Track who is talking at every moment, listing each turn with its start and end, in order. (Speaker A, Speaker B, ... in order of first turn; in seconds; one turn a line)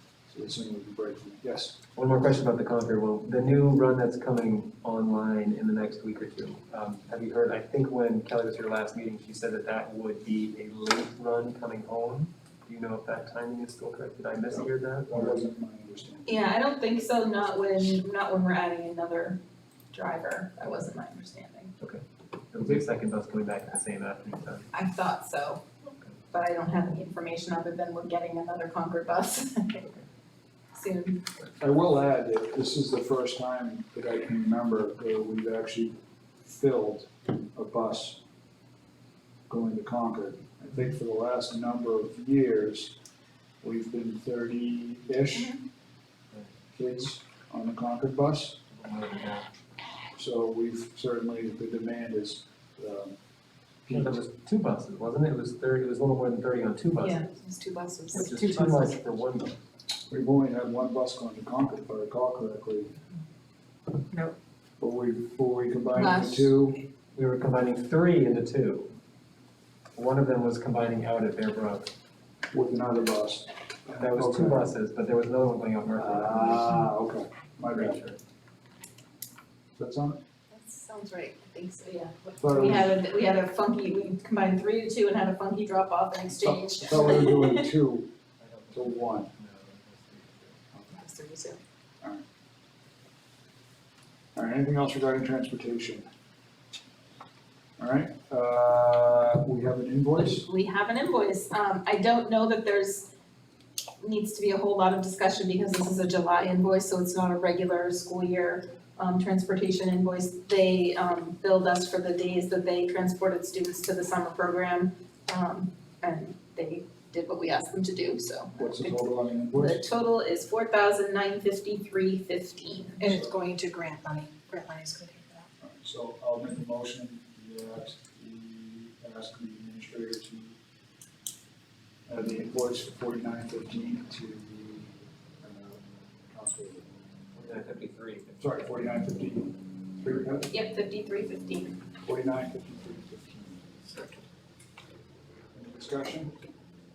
Speaker A: 0.3-1.8
Speaker B: 1.9-15.4
Speaker A: 14.5-16.3
Speaker C: 16.3-21.7
Speaker B: 21.8-24.7
Speaker C: 24.7-25.7
Speaker C: 26.3-29.9
Speaker C: 30.7-31.2
Speaker A: 31.6-38.2
Speaker A: 39.5-43.0
Speaker A: 43.6-45.6
Speaker C: 45.4-45.6
Speaker A: 46.7-48.6
Speaker B: 48.7-49.5
Speaker A: 50.1-53.2
Speaker A: 53.9-54.2
Speaker B: 53.9-57.2
Speaker C: 57.0-58.9
Speaker B: 58.1-59.6
Speaker A: 60.1-63.0
Speaker A: 64.8-66.8
Speaker C: 66.0-66.6
Speaker B: 67.1-68.9
Speaker B: 70.0-71.9
Speaker A: 72.5-74.7
Speaker B: 73.9-76.8
Speaker A: 76.0-78.0
Speaker B: 77.7-78.2
Speaker A: 79.8-80.2
Speaker C: 80.5-87.6
Speaker A: 82.4-82.9
Speaker A: 86.4-88.1
Speaker B: 88.4-90.7
Speaker A: 88.7-89.3
Speaker C: 90.9-91.6
Speaker A: 94.3-96.0
Speaker A: 97.8-100.5
Speaker C: 100.2-103.1
Speaker C: 104.0-119.0
Speaker A: 118.6-119.8
Speaker C: 119.5-123.3
Speaker D: 123.1-125.5
Speaker A: 125.6-130.6
Speaker A: 132.1-136.9
Speaker B: 137.3-138.4
Speaker A: 138.4-140.5
Speaker C: 140.5-141.8
Speaker A: 142.0-143.7
Speaker A: 145.5-146.3